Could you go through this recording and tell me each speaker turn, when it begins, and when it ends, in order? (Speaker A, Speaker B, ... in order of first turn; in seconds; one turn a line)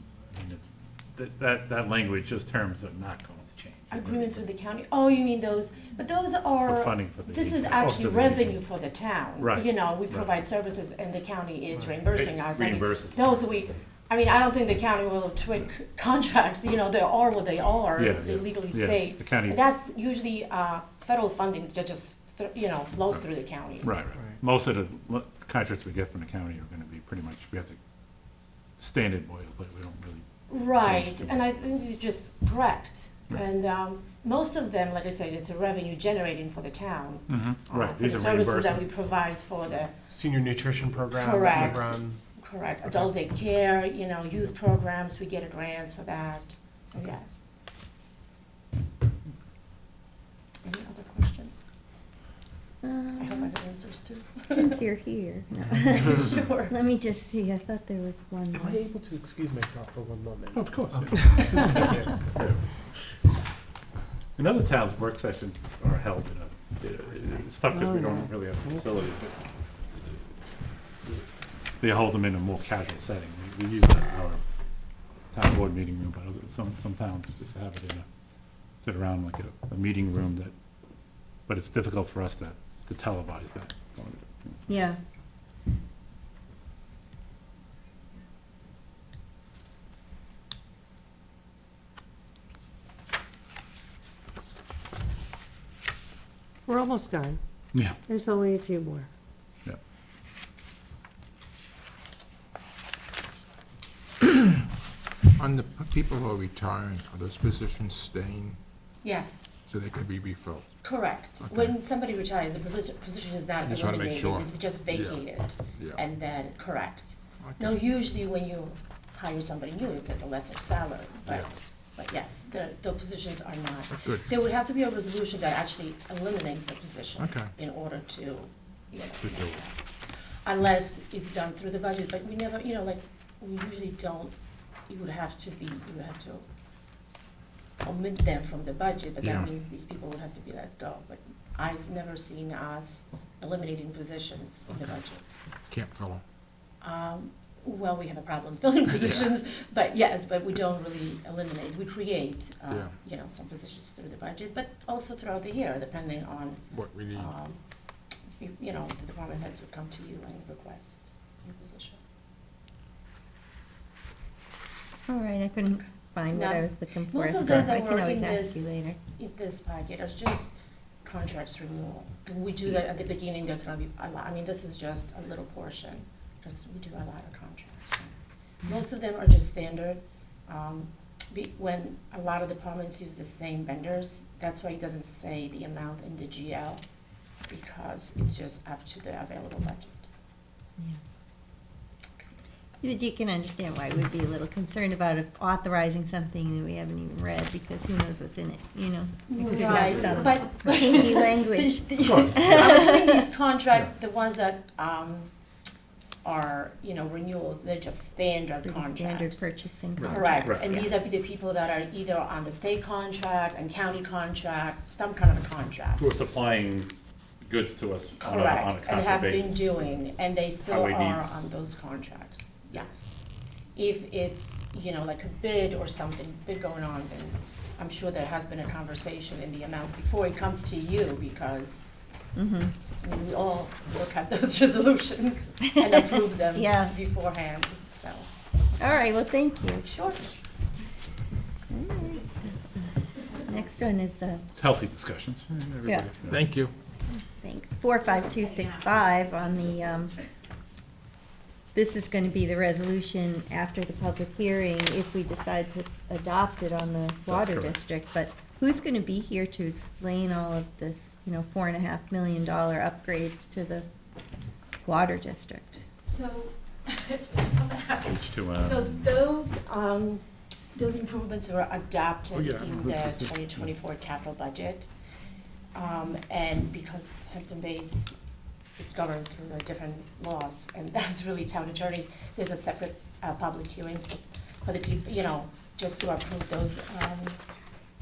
Speaker A: 0.3-4.4
Speaker B: 3.9-23.9
Speaker A: 6.6-8.6
Speaker A: 9.4-10.3
Speaker A: 12.0-13.4
Speaker A: 17.9-19.6
Speaker A: 23.8-27.8
Speaker A: 28.8-31.4
Speaker B: 30.5-40.0
Speaker A: 37.3-39.0
Speaker C: 40.0-42.2
Speaker B: 41.1-47.4
Speaker B: 50.6-51.6
Speaker D: 52.8-53.5
Speaker B: 53.2-54.8
Speaker D: 54.5-58.8
Speaker B: 56.0-56.7
Speaker C: 58.5-62.2
Speaker A: 60.5-62.6
Speaker A: 64.4-69.3
Speaker E: 67.7-68.8
Speaker A: 71.8-74.4
Speaker A: 75.3-78.0
Speaker A: 78.8-80.5
Speaker A: 81.5-84.6
Speaker D: 84.7-85.0
Speaker E: 96.7-97.4
Speaker E: 98.1-99.1
Speaker F: 105.3-108.6
Speaker B: 109.0-109.5
Speaker F: 109.7-110.7
Speaker B: 110.8-129.7
Speaker F: 111.4-111.7
Speaker F: 113.6-116.0
Speaker F: 117.4-117.8
Speaker F: 121.3-121.5
Speaker F: 123.9-124.2
Speaker F: 127.2-127.5
Speaker F: 129.2-129.6
Speaker B: 130.4-134.3
Speaker B: 134.9-136.4
Speaker B: 137.8-145.2
Speaker F: 139.2-139.5
Speaker F: 145.7-146.2
Speaker B: 146.8-157.6
Speaker F: 148.9-149.3
Speaker F: 156.7-157.3
Speaker B: 158.2-162.0
Speaker D: 165.1-169.0
Speaker B: 166.3-178.1
Speaker B: 178.6-186.8
Speaker B: 187.5-190.1
Speaker D: 192.8-203.2
Speaker B: 199.3-205.3
Speaker A: 202.0-202.7
Speaker B: 206.2-209.5
Speaker D: 208.6-210.9
Speaker A: 210.0-210.7
Speaker B: 210.0-216.0
Speaker A: 216.0-216.9
Speaker A: 217.4-219.7
Speaker B: 218.2-223.2
Speaker A: 220.7-221.3
Speaker B: 223.7-232.0
Speaker D: 232.3-232.7
Speaker B: 233.0-238.3
Speaker D: 236.5-236.9
Speaker D: 238.8-239.8
Speaker B: 239.8-240.3
Speaker D: 241.7-244.4
Speaker A: 244.6-245.6
Speaker F: 245.5-246.7
Speaker D: 245.8-246.1
Speaker D: 247.3-250.1
Speaker D: 251.7-263.9
Speaker A: 257.3-257.8
Speaker D: 264.8-265.8
Speaker B: 266.1-274.9
Speaker A: 268.0-269.1
Speaker A: 272.3-273.6
Speaker B: 275.7-278.1
Speaker B: 278.8-287.4